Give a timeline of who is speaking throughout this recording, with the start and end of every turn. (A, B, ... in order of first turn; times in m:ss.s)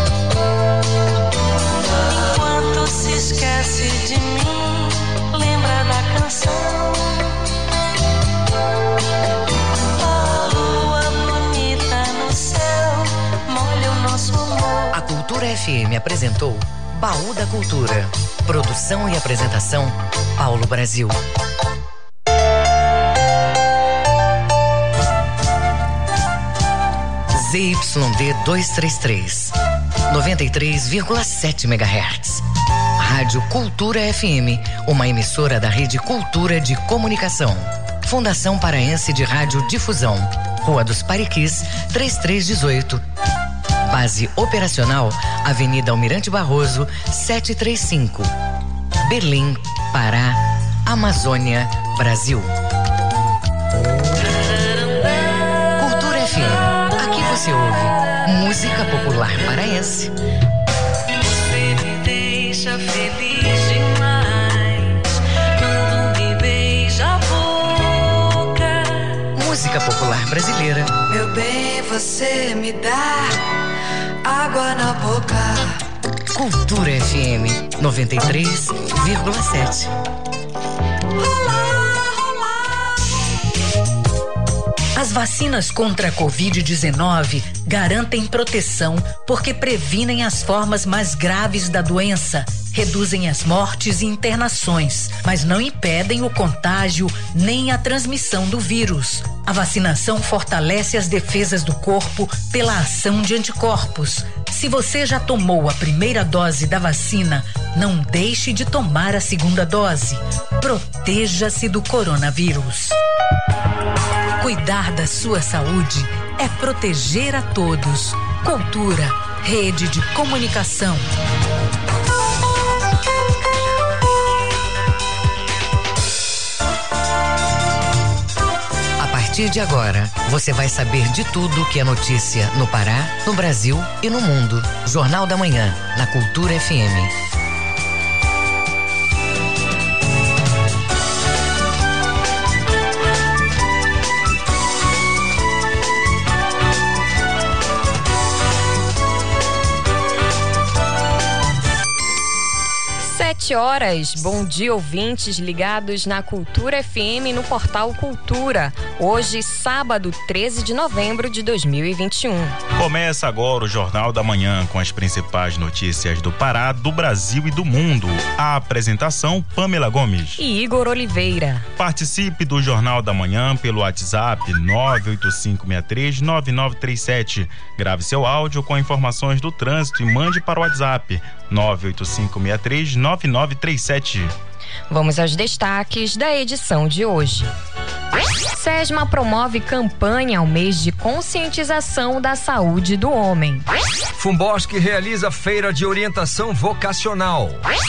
0:01.8-0:07.4 A
0:09.9-0:14.9 A
0:14.9-0:21.2 B
0:27.3-0:29.6 B
0:30.1-0:32.4 B
0:33.0-0:43.0 B
0:43.8-0:48.3 B
0:49.0-0:52.5 B
0:55.8-1:00.1 B
1:01.2-1:09.3 A
1:09.3-1:10.9 B
1:16.3-1:19.9 B
1:25.0-1:53.0 C
1:54.4-2:01.0 C
2:09.0-2:17.1 B
2:33.0-2:42.6 D
2:42.7-2:50.4 E
2:50.4-2:51.6 D
2:51.8-3:04.3 E
3:04.9-3:07.5 D
3:08.5-3:13.6 D
3:14.1-3:17.6 F